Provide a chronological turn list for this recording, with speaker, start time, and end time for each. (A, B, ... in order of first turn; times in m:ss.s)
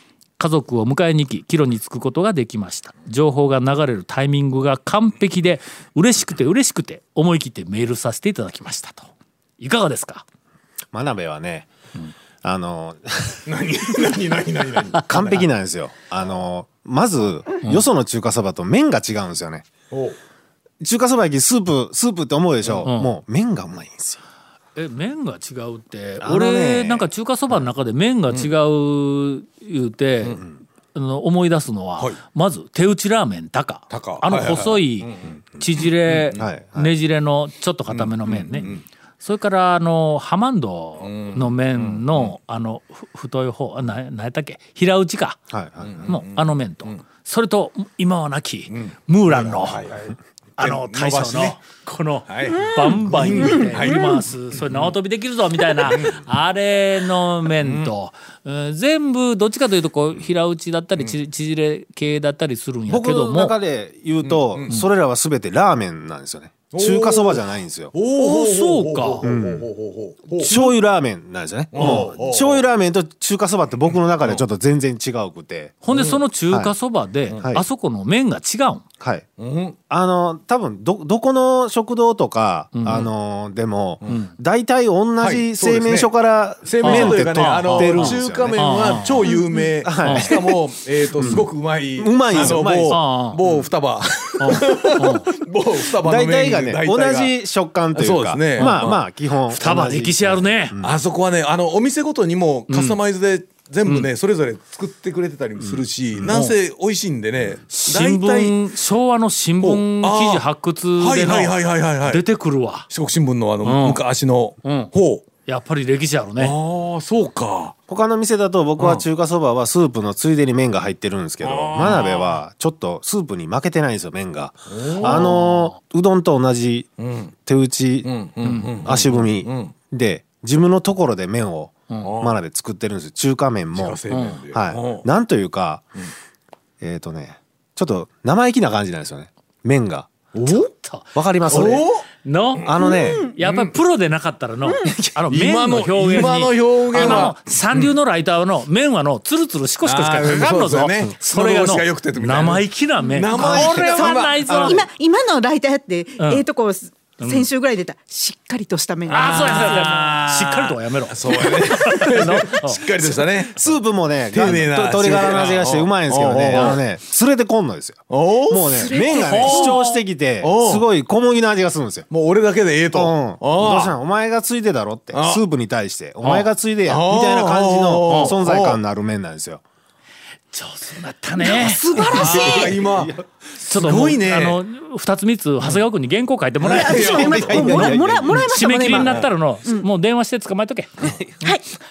0:00.4-0:09.1 A
0:09.6-0:10.2 A
0:10.9-0:11.7 B
0:12.4-0:13.5 B
0:13.5-0:15.5 C
0:15.0-0:19.7 B
0:19.9-0:20.2 C
0:20.8-0:24.2 B
0:22.8-0:23.1 A
0:24.8-0:30.4 A
0:26.2-0:27.6 B
0:30.9-0:45.4 A
0:33.9-0:36.4 C
0:36.4-0:36.9 B
0:37.9-0:38.8 C
0:41.0-0:42.3 C
0:45.5-0:46.2 B
0:45.8-0:47.0 C
0:46.1-0:49.9 A
0:48.7-0:51.6 C
0:50.6-1:03.6 A
0:52.3-0:55.0 C
0:53.8-0:54.1 D
0:55.8-0:56.2 C
0:57.6-0:57.9 C
1:02.9-1:07.9 B
1:04.2-1:04.8 C
1:06.7-1:10.6 C
1:08.2-1:09.3 A
1:09.2-1:09.7 B
1:10.3-1:15.8 B
1:10.4-1:10.7 A
1:11.7-1:12.6 C
1:11.8-1:12.1 A
1:15.8-1:18.8 A
1:15.9-1:16.2 C
1:17.4-1:17.6 B
1:19.0-1:19.2 B
1:19.4-1:19.8 C
1:19.9-1:28.6 B
1:22.7-1:23.1 A
1:25.2-1:37.4 C
1:26.8-1:29.2 A
1:29.8-1:30.4 B
1:30.0-1:30.4 A
1:31.2-1:33.6 B
1:32.3-1:33.4 A
1:34.4-1:35.3 A
1:36.0-1:40.9 B
1:37.9-1:39.0 C
1:38.6-1:38.8 A
1:39.5-1:40.8 A
1:40.8-1:48.6 C
1:42.7-1:43.0 A
1:45.6-1:46.4 B
1:46.3-1:46.6 A
1:47.7-1:52.9 A
1:49.6-1:50.4 C
1:51.0-1:52.2 C
1:52.9-1:55.2 C
1:53.6-1:54.0 A
1:54.6-1:54.9 A
1:55.4-1:56.6 A
1:56.4-1:57.7 C
1:57.9-2:06.9 B
1:58.8-1:59.0 C
2:01.4-2:02.4 C
2:04.7-2:05.4 C
2:05.0-2:05.7 A
2:07.0-2:07.3 C
2:07.4-2:08.1 B
2:08.0-2:09.7 C
2:08.8-2:15.9 B
2:12.0-2:12.4 C
2:13.7-2:15.1 C
2:14.1-2:14.4 A
2:16.8-2:20.5 B
2:20.4-2:20.7 C
2:20.4-2:21.7 A
2:21.1-2:21.9 B
2:21.5-2:22.1 C
2:22.2-2:22.8 A
2:22.6-2:23.8 C
2:22.6-2:23.2 B
2:22.8-2:23.3 D
2:23.4-2:34.9 A
2:24.6-2:24.9 D
2:25.3-2:27.9 C
2:27.0-2:27.3 B
2:29.8-2:34.8 C
2:33.0-2:39.9 D
2:33.3-2:33.8 B
2:37.2-2:37.5 A
2:39.1-2:46.8 C
2:39.1-2:43.2 A
2:43.5-2:52.1 B
2:48.1-2:49.8 C
2:48.6-2:49.8 D
2:49.1-2:49.8 A
2:50.4-2:50.9 C
2:52.1-2:53.9 C
2:52.9-2:59.6 B
2:55.1-2:55.4 C
2:56.2-2:58.8 C
3:00.5-3:02.6 A
3:01.4-3:02.8 D
3:01.9-3:04.6 C
3:02.2-3:03.2 B
3:03.6-3:10.9 A
3:06.6-3:07.6 C
3:06.7-3:09.8 D
3:07.0-3:08.4 B
3:08.9-3:09.3 C
3:11.0-3:11.5 B